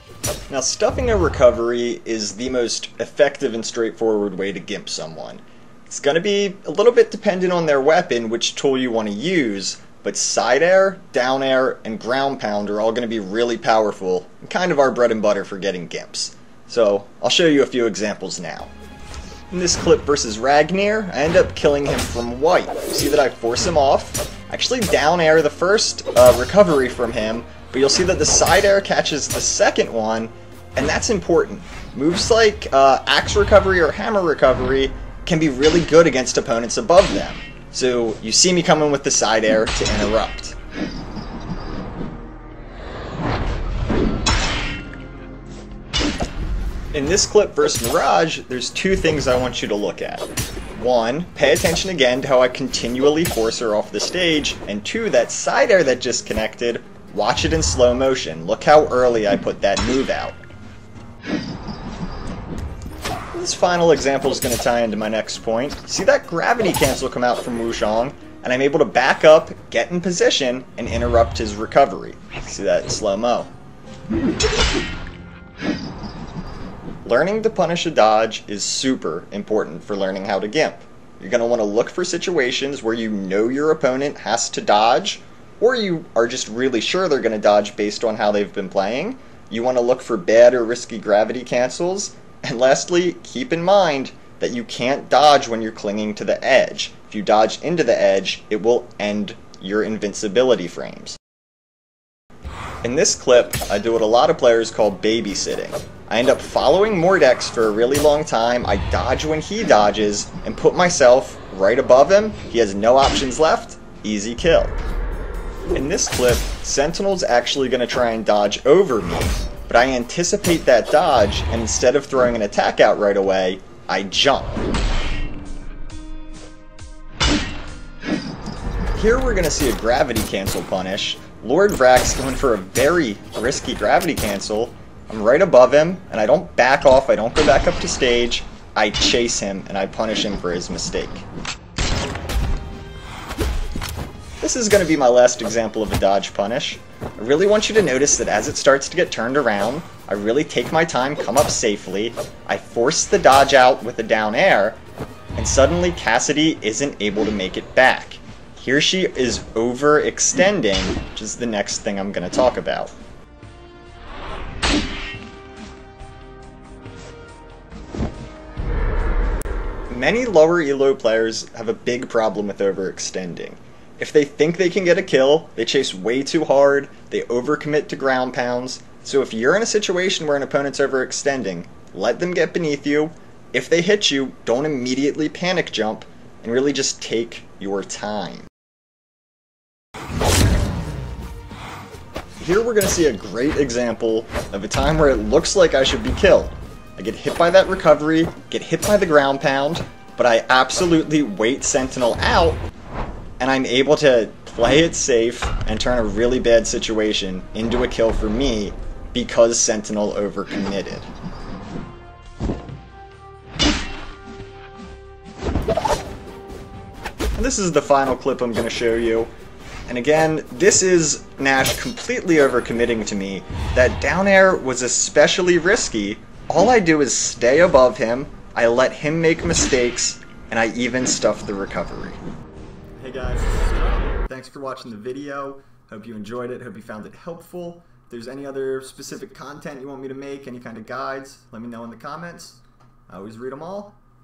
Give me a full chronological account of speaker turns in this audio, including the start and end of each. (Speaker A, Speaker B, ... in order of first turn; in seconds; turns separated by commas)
Speaker A: 0.5-18.7, Speaker A: 19.5-40.5, Speaker A: 46.9-60.4, Speaker A: 63.3-73.5, Speaker A: 77.0-101.2, Speaker A: 102.8-114.8, Speaker A: 115.7-124.7, Speaker A: 128.9-141.2, Speaker A: 144.4-154.8, Speaker A: 155.3-162.9, Speaker A: 169.9-188.5, Speaker A: 192.4-202.6, Speaker A: 203.4-211.1, Speaker A: 217.3-219.3, Speaker A: 219.9-232.2, Speaker A: 233.0-244.0